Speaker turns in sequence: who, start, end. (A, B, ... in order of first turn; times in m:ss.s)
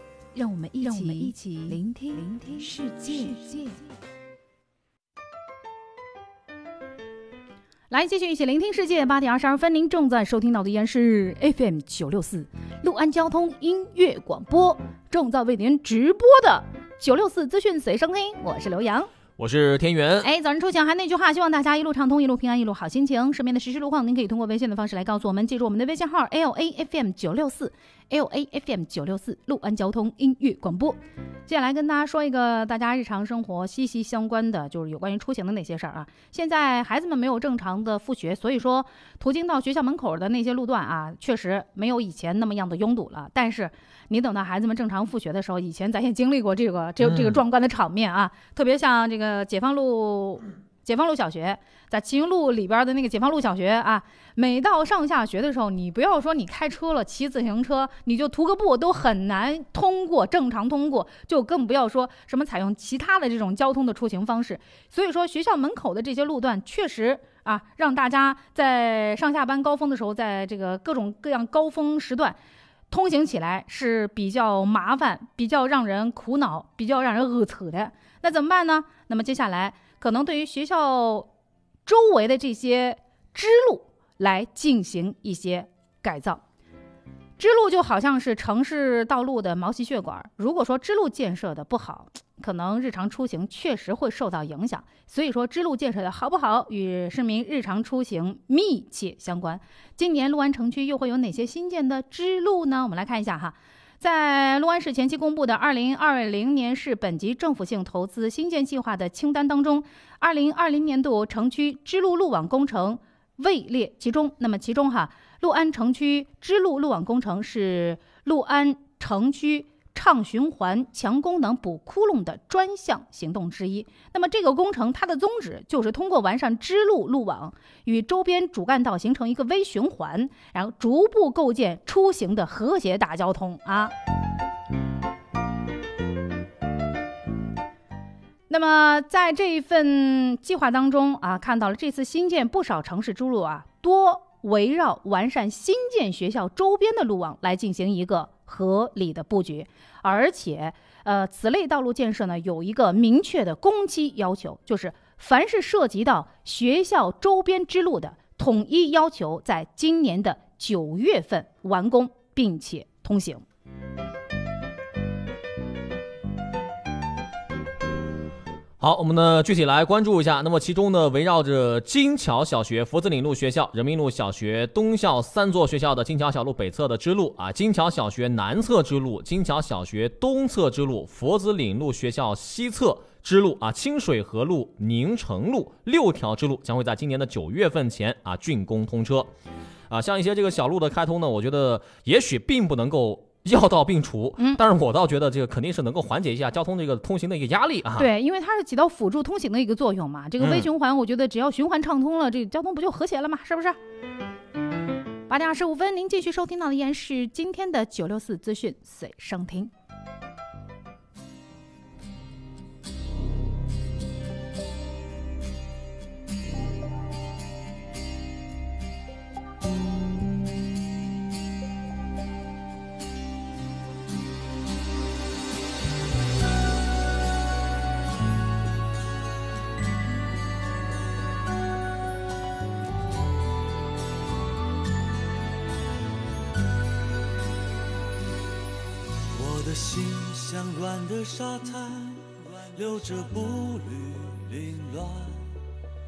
0:00.4-0:03.8 A
0:00.8-0:01.3 B
0:07.9-0:19.1 B
0:19.4-0:20.3 C
0:20.2-1:12.4 B
0:47.0-0:47.4 C
1:12.9-1:21.3 B
1:21.9-1:26.4 B
1:27.4-2:13.9 B
2:18.5-2:43.4 B
2:48.8-3:09.3 C
3:09.9-3:18.1 C
3:18.0-3:23.8 B
3:20.4-3:20.7 C
3:25.3-3:29.7 B
3:59.3-4:05.6 D